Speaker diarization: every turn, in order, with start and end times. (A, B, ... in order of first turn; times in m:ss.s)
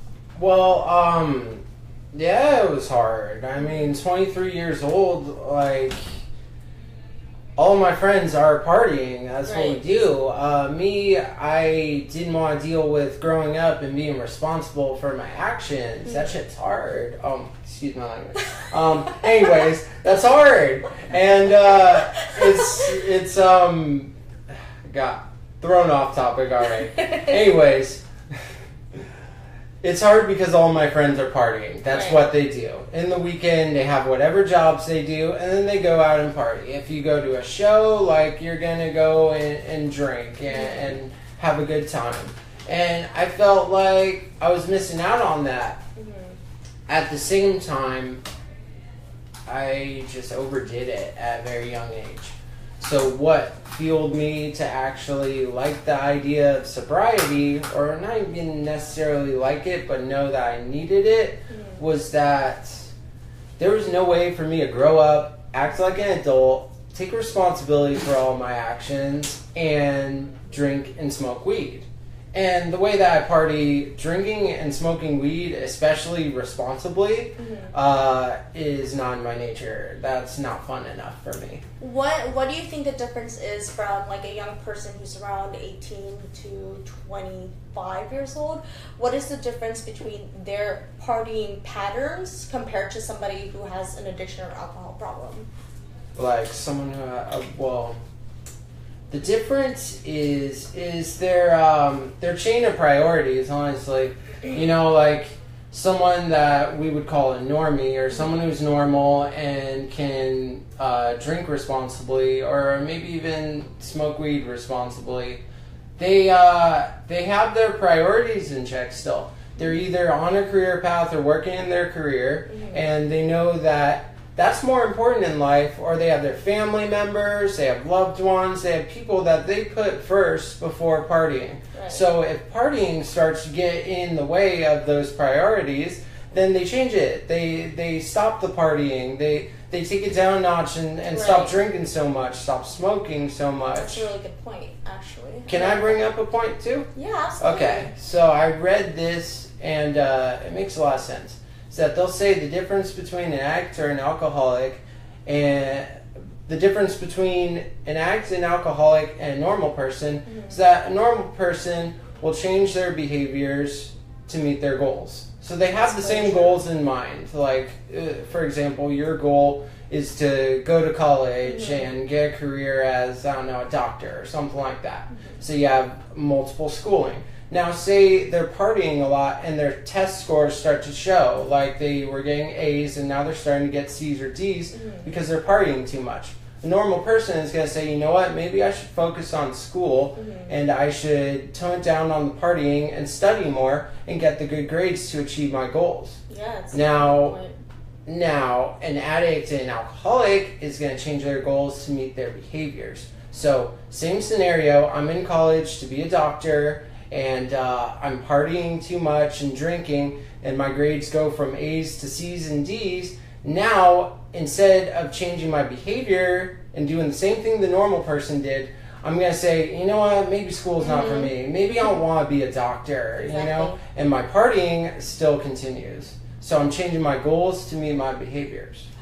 0:00.3-0:06.2 A
0:03.6-0:04.0 B
0:07.6-0:24.1 A
0:09.4-0:10.1 B
0:16.0-0:16.3 B
0:24.8-0:28.0 A
0:29.8-0:45.8 A
0:31.9-0:32.2 B
0:40.5-0:40.9 B
0:46.0-0:46.4 B
0:46.9-0:48.2 A
0:49.5-1:02.9 A
1:01.5-1:01.8 B
1:03.6-1:21.6 A
1:17.4-1:17.7 B
1:21.8-1:35.5 B
1:36.1-1:38.0 A
1:39.1-1:55.4 A
1:56.0-2:24.1 A
2:02.5-2:02.8 B
2:11.7-2:12.0 B
2:21.1-2:21.6 B
2:23.7-2:26.0 B
2:25.5-2:26.9 A
2:26.9-2:27.9 B
2:27.4-3:16.2 A
2:40.3-2:40.6 B
2:45.7-2:46.6 B
2:51.4-2:51.9 B
2:55.1-2:55.4 B
3:04.7-3:05.1 B
3:10.1-3:10.5 B
3:16.3-3:17.6 B
3:16.7-3:17.4 A
3:18.0-3:48.9 A
3:40.8-3:41.3 B
3:43.1-3:43.8 B